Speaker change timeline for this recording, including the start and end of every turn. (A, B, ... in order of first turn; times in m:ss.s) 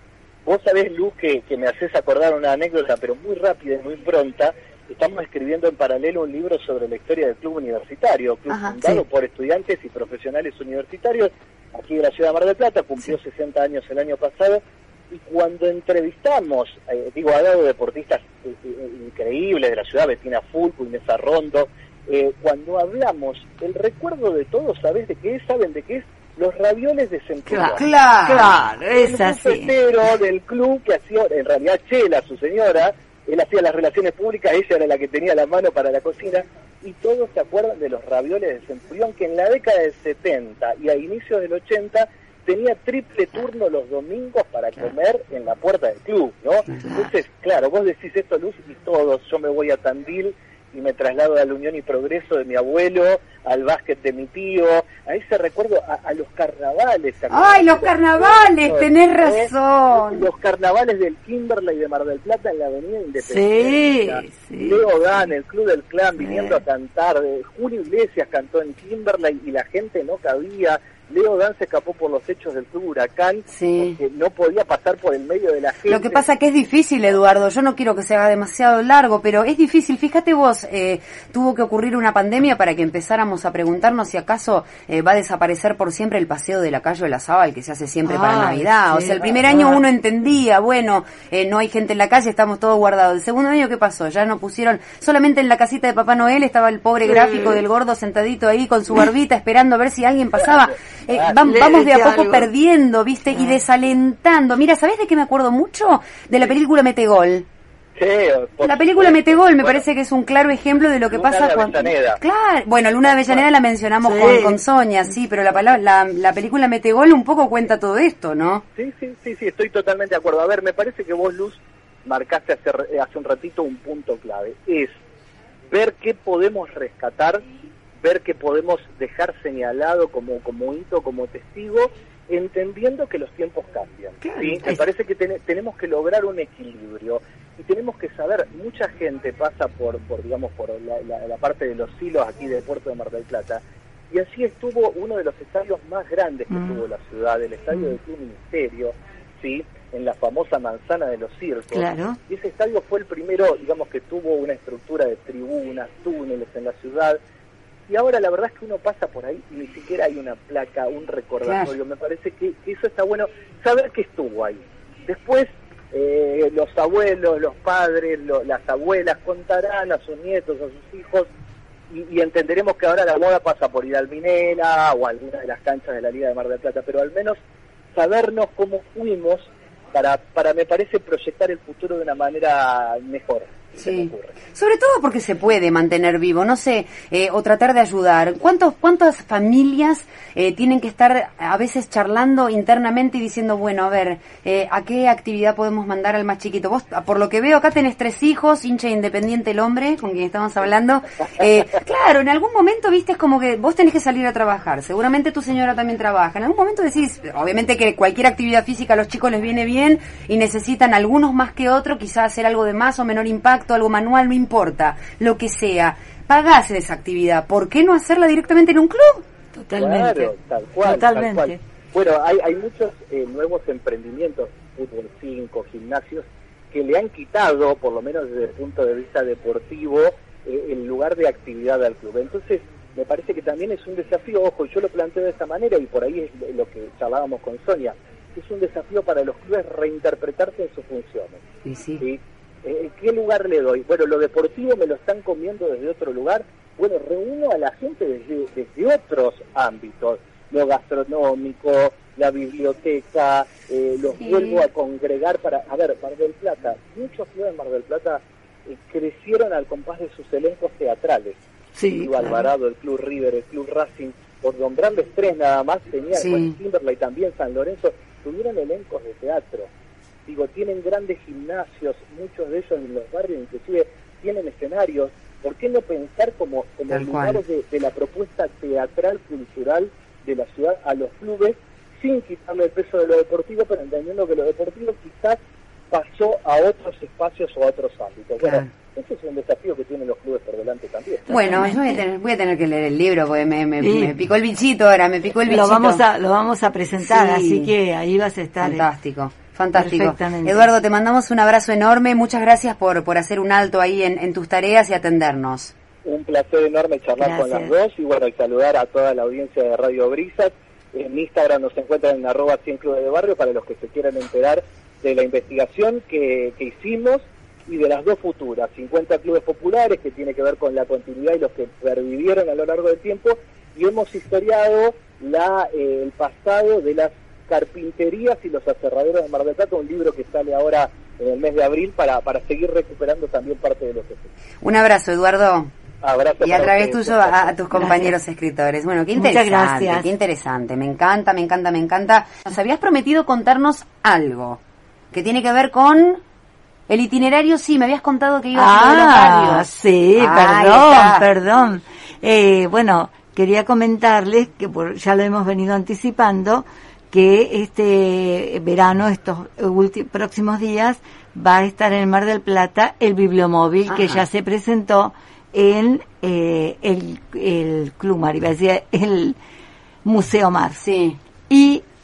0:00.4-0:27.9 A
0:08.5-0:08.9 B
0:27.5-0:29.7 C
0:27.8-0:28.6 B
0:28.9-1:16.2 A
0:46.8-0:47.1 C
0:57.3-1:00.3 B
1:03.2-1:04.9 C
1:06.2-1:06.6 C
1:13.5-1:14.0 B
1:15.9-1:47.5 B
1:28.0-1:29.8 C
1:37.0-1:37.6 C
1:40.4-1:41.4 A
1:41.4-1:42.5 C
1:48.0-1:49.8 A
1:48.6-1:58.6 B
1:51.1-1:52.2 A
1:53.0-1:53.4 A
1:54.0-1:54.6 C
1:58.8-2:05.0 A
2:05.7-2:07.4 A
2:08.0-2:37.2 A
2:14.2-2:14.8 C
2:26.5-2:26.8 C
2:31.7-2:32.2 C
2:37.9-2:51.3 A
2:41.4-2:41.7 B
2:51.9-2:57.4 A
2:57.9-3:04.4 A
3:03.8-3:39.2 B
3:39.5-3:40.3 C
3:39.8-4:01.4 A
3:40.8-3:41.6 C
4:01.6-4:02.0 B
4:02.0-4:21.4 A
4:21.8-4:22.5 C
4:22.0-4:29.7 A
4:26.1-4:26.6 B
4:30.3-4:45.4 A
4:36.9-4:37.4 B
4:45.9-4:51.5 A
4:48.4-4:48.7 B
4:51.3-4:56.0 B
4:51.5-4:52.0 C
4:53.8-4:54.2 C
4:55.4-4:58.9 C
4:57.0-4:57.7 B
4:58.6-5:05.7 B
4:59.8-5:00.7 C
5:06.0-5:34.3 A
5:07.2-5:07.7 C
5:34.6-5:35.7 B
5:36.0-5:37.6 A
5:36.4-5:44.6 B
5:37.7-5:38.1 C
5:39.2-5:40.1 C
5:45.1-5:46.2 B
5:46.9-5:51.3 B
5:48.5-6:09.4 C
6:03.9-6:04.2 B
6:10.0-6:10.8 C
6:10.8-6:11.2 B
6:11.5-6:11.8 C